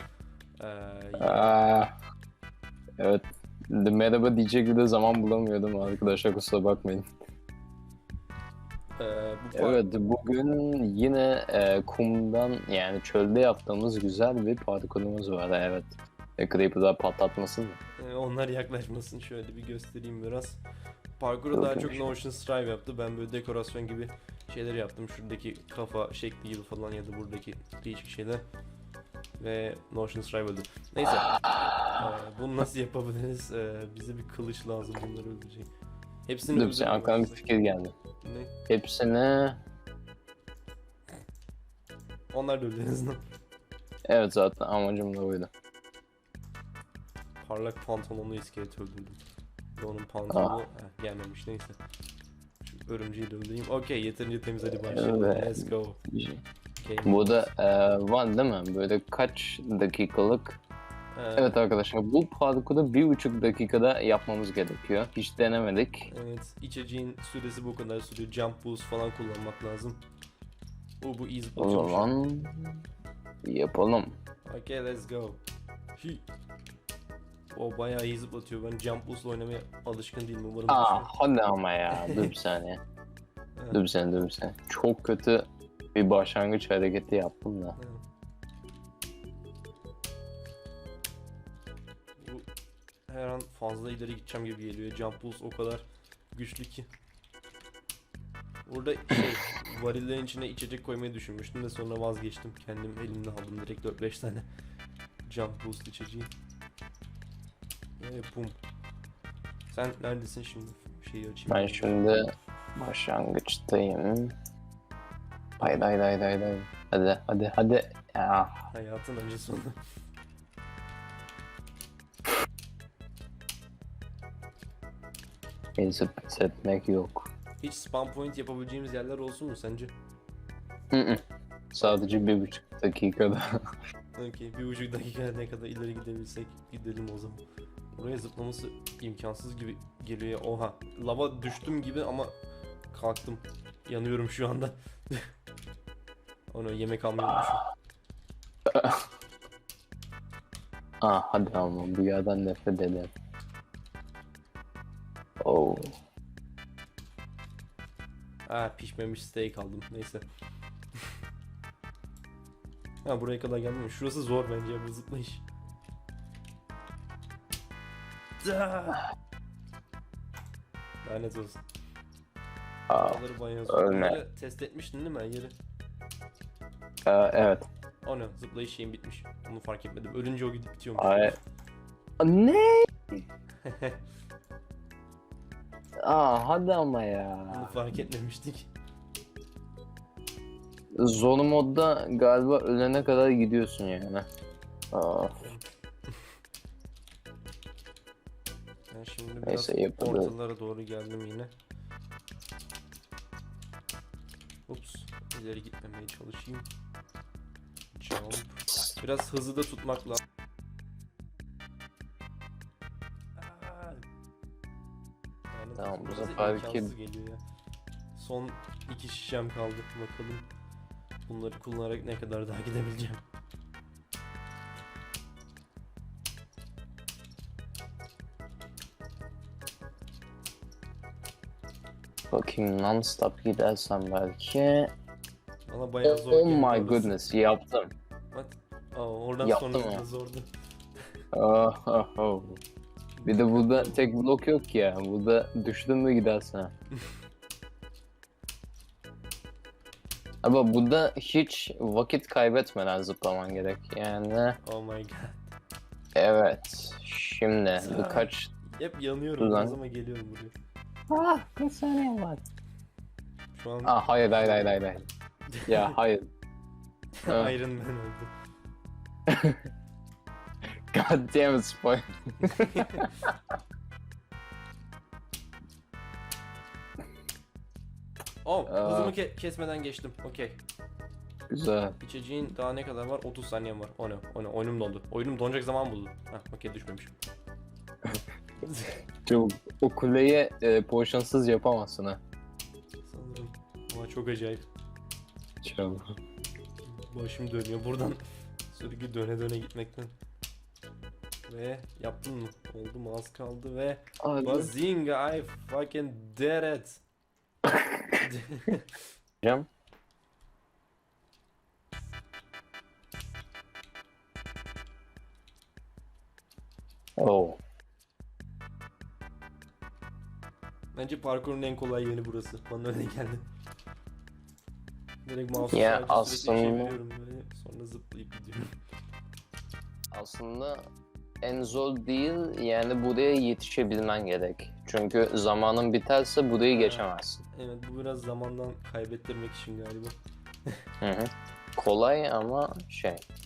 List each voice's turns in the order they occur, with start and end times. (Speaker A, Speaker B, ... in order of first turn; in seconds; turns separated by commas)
Speaker A: 0.6-1.5, Speaker B: 1.2-1.9, Speaker B: 3.0-7.0, Speaker A: 9.0-9.8, Speaker B: 9.5-17.8, Speaker A: 18.0-20.6, Speaker A: 21.2-28.4, Speaker B: 21.5-22.1, Speaker A: 29.4-31.4, Speaker A: 31.9-35.7, Speaker A: 36.2-37.5, Speaker B: 36.5-37.9, Speaker A: 38.2-38.5, Speaker B: 38.7-39.6, Speaker A: 42.3-43.2, Speaker B: 44.1-45.5, Speaker A: 47.4-49.2, Speaker A: 49.8-51.8, Speaker B: 50.3-50.6, Speaker A: 52.6-56.0, Speaker B: 54.7-56.4, Speaker A: 56.8-57.5, Speaker B: 57.0-60.6, Speaker A: 61.2-61.6, Speaker B: 61.4-66.1, Speaker A: 66.1-70.0, Speaker A: 71.0-72.1, Speaker B: 71.6-72.8, Speaker B: 73.4-74.1, Speaker A: 74.5-75.4, Speaker A: 76.0-76.2, Speaker A: 77.5-81.1, Speaker B: 80.7-82.8, Speaker A: 81.9-82.3, Speaker B: 83.7-87.8, Speaker A: 87.8-88.0, Speaker A: 92.2-92.5, Speaker A: 93.1-96.9, Speaker A: 98.7-104.5, Speaker A: 105.3-106.3, Speaker A: 108.0-108.6, Speaker A: 109.7-112.0, Speaker B: 111.5-114.3, Speaker B: 115.6-118.5, Speaker A: 118.7-119.8, Speaker B: 125.8-127.3, Speaker A: 127.6-129.9, Speaker B: 130.9-133.5, Speaker A: 131.8-132.3, Speaker A: 134.2-137.4, Speaker A: 137.9-142.3, Speaker A: 142.9-145.3, Speaker A: 146.5-147.7, Speaker B: 148.7-149.0, Speaker B: 151.0-153.1, Speaker B: 155.4-155.9, Speaker A: 158.5-160.2, Speaker A: 163.0-165.4, Speaker A: 168.4-169.1, Speaker A: 171.0-171.6, Speaker B: 172.9-174.2, Speaker A: 172.9-175.6, Speaker B: 177.1-177.7, Speaker A: 178.0-181.3, Speaker B: 181.0-181.3, Speaker B: 182.2-183.2, Speaker A: 183.6-184.0, Speaker B: 186.0-187.8, Speaker A: 187.5-188.7, Speaker B: 191.0-194.3, Speaker B: 194.9-195.4, Speaker A: 198.9-201.5, Speaker B: 199.4-200.3, Speaker A: 204.7-206.7, Speaker A: 207.9-210.2, Speaker A: 213.3-214.1, Speaker A: 215.5-217.4, Speaker B: 215.8-216.9, Speaker A: 218.2-220.5, Speaker A: 221.2-223.2, Speaker B: 232.3-234.9, Speaker A: 235.7-237.2, Speaker B: 236.0-237.9, Speaker A: 238.3-240.5, Speaker B: 239.4-240.0, Speaker B: 241.3-242.6, Speaker A: 243.2-244.0, Speaker B: 243.2-246.7, Speaker B: 250.4-254.6, Speaker A: 254.6-255.5, Speaker B: 256.1-258.5, Speaker A: 257.8-260.5, Speaker B: 259.4-259.8, Speaker B: 261.1-262.4, Speaker A: 263.5-264.8, Speaker B: 263.8-265.1, Speaker A: 265.5-265.9, Speaker B: 265.6-266.3, Speaker A: 267.2-268.3, Speaker B: 267.3-267.5, Speaker B: 269.3-269.6, Speaker B: 270.9-273.4, Speaker A: 272.4-273.1, Speaker A: 278.4-280.6, Speaker B: 278.7-279.1, Speaker B: 281.5-281.9, Speaker A: 282.0-287.2, Speaker A: 288.6-288.9, Speaker B: 289.2-292.2, Speaker A: 293.0-294.7, Speaker B: 295.6-296.1, Speaker A: 296.9-300.1, Speaker A: 301.5-307.0, Speaker B: 304.2-304.7, Speaker B: 307.7-308.1, Speaker A: 308.2-309.0, Speaker B: 309.4-309.7, Speaker B: 317.2-317.6, Speaker A: 320.9-323.4, Speaker A: 325.2-328.7, Speaker B: 325.5-326.9, Speaker B: 330.1-330.8, Speaker B: 331.4-337.4, Speaker A: 336.7-340.1, Speaker B: 341.0-343.2